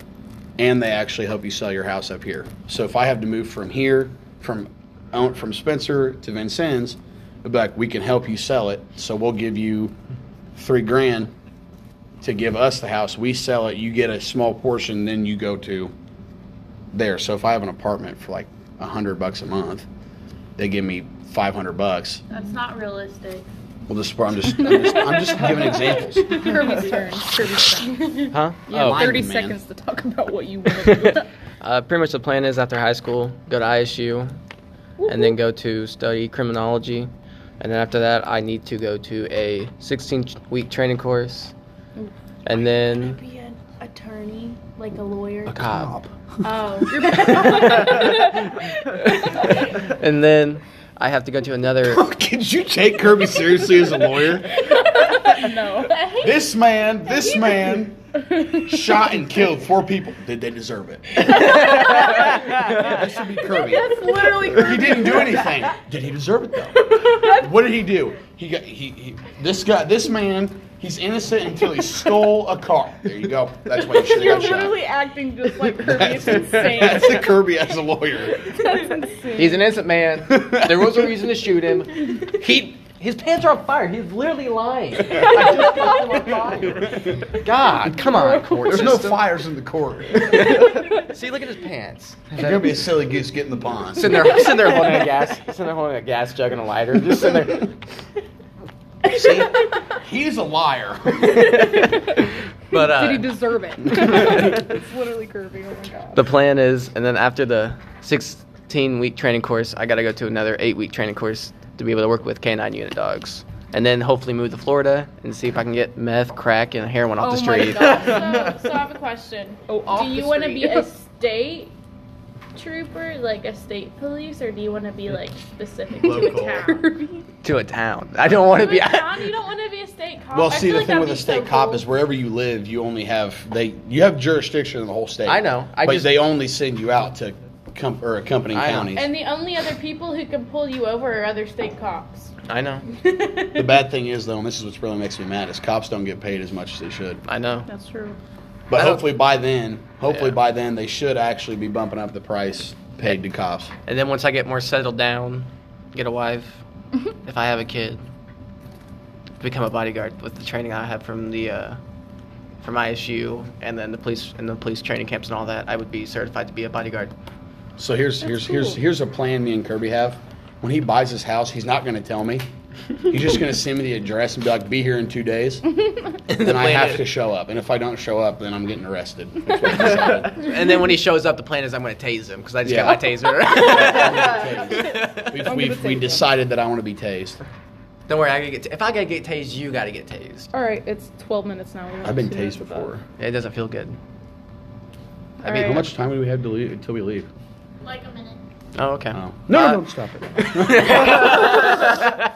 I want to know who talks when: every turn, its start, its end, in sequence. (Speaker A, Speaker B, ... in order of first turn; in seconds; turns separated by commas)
Speaker A: 0.6-9.9, Speaker A: 10.5-11.3, Speaker A: 12.2-15.9, Speaker A: 16.9-19.9, Speaker A: 20.6-22.2, Speaker B: 22.3-23.5, Speaker A: 23.9-26.4, Speaker C: 24.5-31.3, Speaker A: 27.4-27.7, Speaker D: 28.3-29.2, Speaker A: 28.8-29.6, Speaker D: 30.6-34.3, Speaker C: 35.0-35.4, Speaker D: 35.0-41.5, Speaker D: 42.4-43.2, Speaker B: 42.5-45.6, Speaker A: 45.5-46.1, Speaker D: 45.5-45.9, Speaker B: 46.4-48.3, Speaker C: 46.9-48.6, Speaker D: 49.0-52.0, Speaker A: 51.8-54.6, Speaker C: 54.6-56.0, Speaker B: 55.0-56.5, Speaker A: 56.2-74.8, Speaker B: 57.1-57.8, Speaker C: 58.3-58.6, Speaker D: 61.9-62.9, Speaker C: 63.4-65.7, Speaker C: 66.9-67.5, Speaker C: 73.7-77.3, Speaker A: 75.8-78.6, Speaker C: 78.4-79.7, Speaker D: 79.3-89.2, Speaker A: 80.2-81.1, Speaker C: 85.3-85.9, Speaker C: 88.0-88.7, Speaker A: 88.6-90.8, Speaker D: 90.2-92.8, Speaker A: 92.4-94.1, Speaker D: 93.9-97.7, Speaker A: 99.1-101.8, Speaker D: 101.2-102.0, Speaker C: 101.7-106.3, Speaker D: 102.7-103.3, Speaker D: 104.2-104.6, Speaker D: 106.1-118.3, Speaker C: 117.2-118.5, Speaker B: 117.4-121.7, Speaker C: 119.7-120.9, Speaker B: 122.5-126.9, Speaker C: 125.9-127.2, Speaker A: 126.0-126.6, Speaker D: 127.4-129.3, Speaker B: 128.5-131.9, Speaker A: 130.3-139.1, Speaker D: 135.2-136.2, Speaker D: 138.5-138.9, Speaker B: 138.9-142.3, Speaker D: 142.4-142.8, Speaker B: 142.9-143.8, Speaker A: 143.5-147.2, Speaker D: 147.2-147.7, Speaker C: 147.7-148.2, Speaker A: 148.7-153.7, Speaker D: 148.7-149.1, Speaker D: 150.0-150.4, Speaker D: 153.8-156.6, Speaker D: 157.2-158.0, Speaker D: 159.4-161.8, Speaker D: 162.6-167.1, Speaker A: 167.8-172.5, Speaker C: 168.2-168.8, Speaker A: 173.1-175.7, Speaker A: 176.3-180.4, Speaker D: 176.3-177.1, Speaker D: 179.8-185.5, Speaker A: 182.6-183.0, Speaker A: 183.6-187.4, Speaker C: 183.7-184.8, Speaker C: 185.4-186.3, Speaker D: 188.1-190.5, Speaker C: 190.5-192.9, Speaker A: 192.0-193.0, Speaker D: 193.2-194.0, Speaker D: 195.4-195.9, Speaker C: 195.4-195.8, Speaker A: 195.5-197.3, Speaker B: 197.8-198.4, Speaker D: 198.7-199.8, Speaker A: 199.1-201.9, Speaker D: 200.4-202.2